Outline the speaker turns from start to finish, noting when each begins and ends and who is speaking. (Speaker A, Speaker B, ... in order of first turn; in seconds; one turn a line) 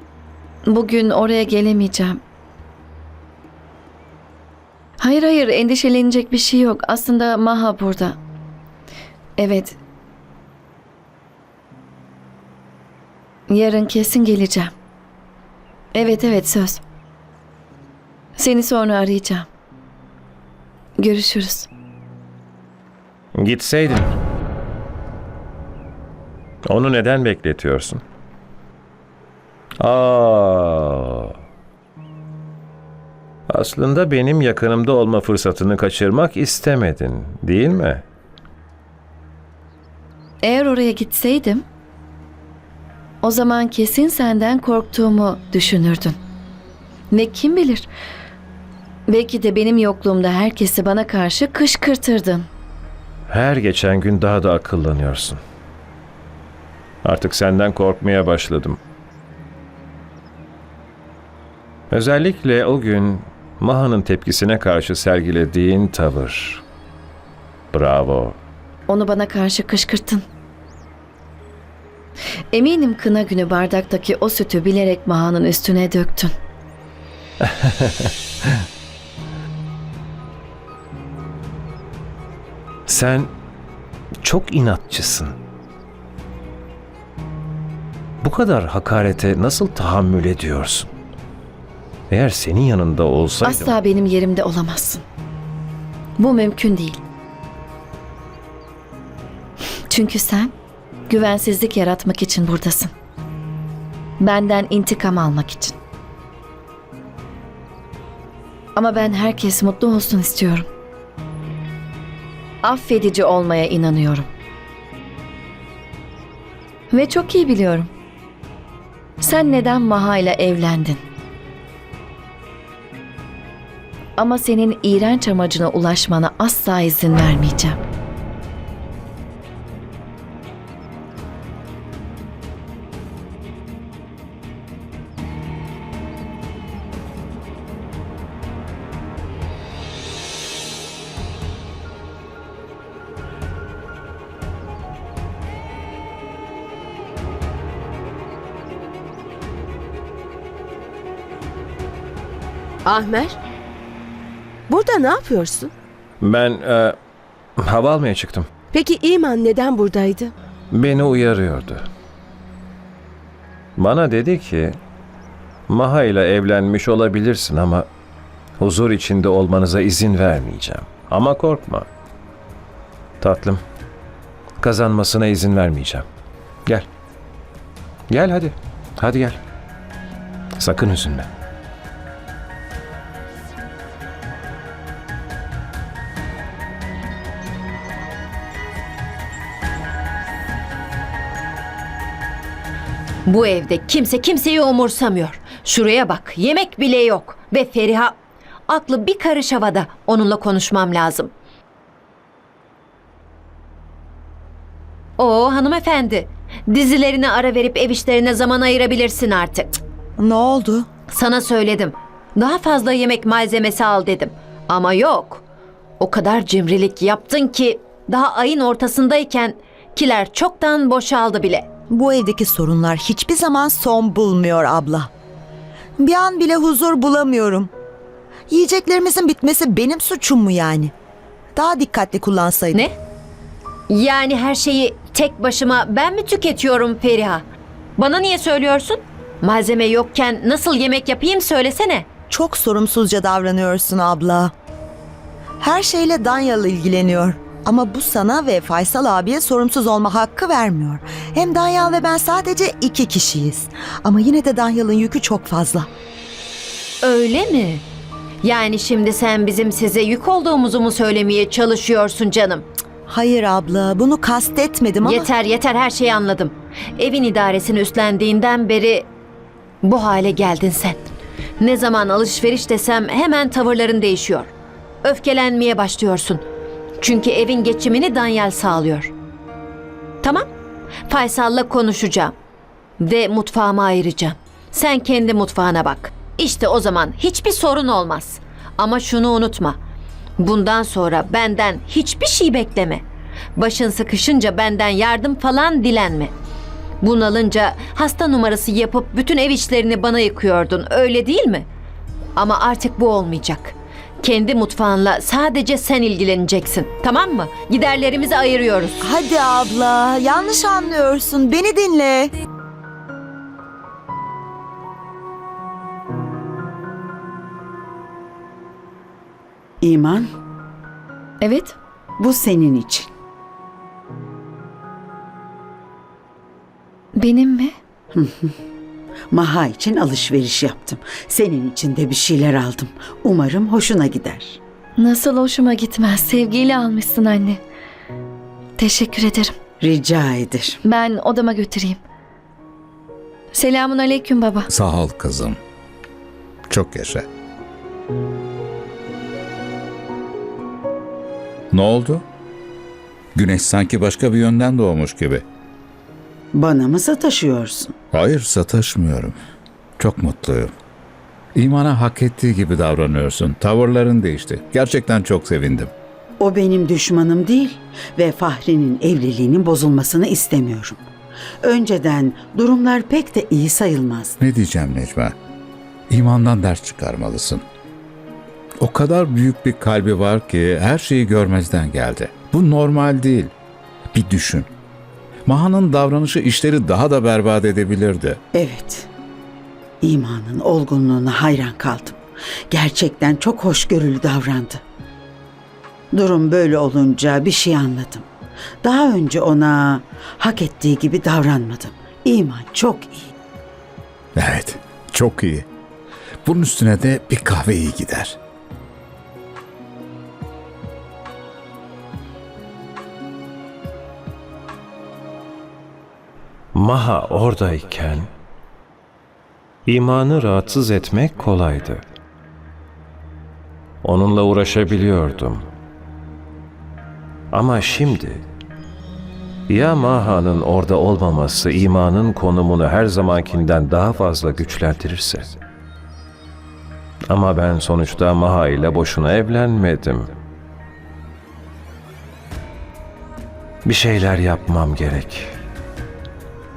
Speaker A: 0.7-2.2
Speaker A: 5.0-8.2
Speaker A: 9.4-9.8
Speaker A: 13.5-14.7
Speaker A: 15.9-16.8
Speaker A: 18.4-19.5
Speaker A: 21.0-21.7
Speaker B: 23.4-24.1
Speaker B: 26.7-28.0
Speaker B: 29.8-31.3
Speaker B: 33.5-38.0
Speaker A: 40.4-41.6
Speaker A: 43.2-46.1
Speaker A: 47.1-47.9
Speaker A: 49.1-52.5
Speaker B: 53.3-55.4
Speaker B: 57.0-58.8
Speaker B: 61.9-66.6
Speaker B: 67.7-68.4
Speaker A: 68.9-70.2
Speaker A: 72.5-76.3
Speaker B: 77.4-78.1
Speaker B: 82.9-83.3
Speaker B: 84.2-85.3
Speaker B: 88.2-90.9
Speaker B: 92.1-93.7
Speaker A: 93.4-95.0
Speaker A: 96.2-97.0
Speaker A: 99.9-100.5
Speaker A: 101.1-102.9
Speaker A: 104.2-105.8
Speaker A: 108.7-110.7
Speaker A: 112.6-114.3
Speaker A: 116.9-117.9
Speaker A: 119.2-121.0
Speaker A: 124.2-127.8
Speaker C: 152.8-153.4
Speaker C: 154.7-155.7
Speaker B: 156.2-157.0
Speaker B: 157.6-158.5
Speaker C: 158.7-160.3
Speaker B: 160.7-161.8
Speaker B: 163.8-164.8
Speaker B: 165.7-167.9
Speaker B: 168.6-171.9
Speaker B: 173.2-173.6
Speaker B: 174.6-176.1
Speaker B: 178.1-179.4
Speaker B: 180.6-181.3
Speaker D: 193.2-198.2
Speaker D: 198.7-201.3
Speaker D: 205.2-209.8
Speaker E: 210.2-210.9
Speaker D: 211.1-215.4
Speaker D: 216.0-221.7
Speaker E: 221.9-225.1
Speaker E: 226.0-227.7
Speaker E: 228.5-230.9
Speaker E: 231.5-232.9
Speaker D: 233.9-237.4
Speaker D: 238.0-242.1
Speaker E: 242.3-244.5
Speaker E: 245.6-255.9
Speaker D: 257.0-257.8
Speaker D: 258.4-262.6
Speaker E: 263.1-265.3
Speaker D: 265.1-269.1
Speaker D: 269.8-271.0
Speaker D: 271.6-274.5
Speaker D: 275.0-276.4
Speaker D: 277.0-279.1
Speaker D: 280.2-280.5
Speaker D: 281.1-282.3
Speaker D: 283.0-289.8
Speaker D: 290.4-293.0
Speaker D: 293.6-296.3
Speaker D: 297.0-301.7
Speaker D: 302.4-309.0
Speaker E: 309.0-312.3
Speaker F: 319.8-320.3
Speaker A: 321.4-321.8
Speaker F: 322.2-323.1
Speaker A: 327.1-327.7
Speaker F: 328.1-328.5
Speaker F: 329.3-334.6
Speaker A: 335.0-337.6
Speaker A: 338.8-339.5
Speaker F: 339.8-340.8
Speaker A: 340.8-342.0
Speaker A: 343.5-344.7
Speaker G: 344.7-345.6
Speaker G: 346.7-347.2
Speaker G: 351.7-352.2
Speaker G: 353.4-355.4
Speaker F: 356.5-357.9
Speaker G: 358.1-359.4
Speaker G: 360.0-360.7
Speaker G: 361.6-365.9
Speaker F: 366.4-371.0
Speaker F: 371.6-374.4
Speaker G: 374.4-375.3
Speaker G: 376.1-377.6
Speaker G: 378.8-383.5
Speaker G: 384.1-384.7
Speaker G: 385.4-388.4
Speaker F: 388.5-389.1
Speaker F: 390.0-394.8
Speaker F: 396.1-398.3
Speaker F: 398.8-403.3
Speaker G: 404.4-405.7
Speaker G: 406.4-408.4
Speaker B: 416.7-418.3
Speaker B: 419.9-422.0
Speaker B: 424.0-425.6
Speaker B: 427.5-428.4
Speaker B: 429.7-435.5
Speaker B: 437.3-440.3
Speaker B: 443.8-445.5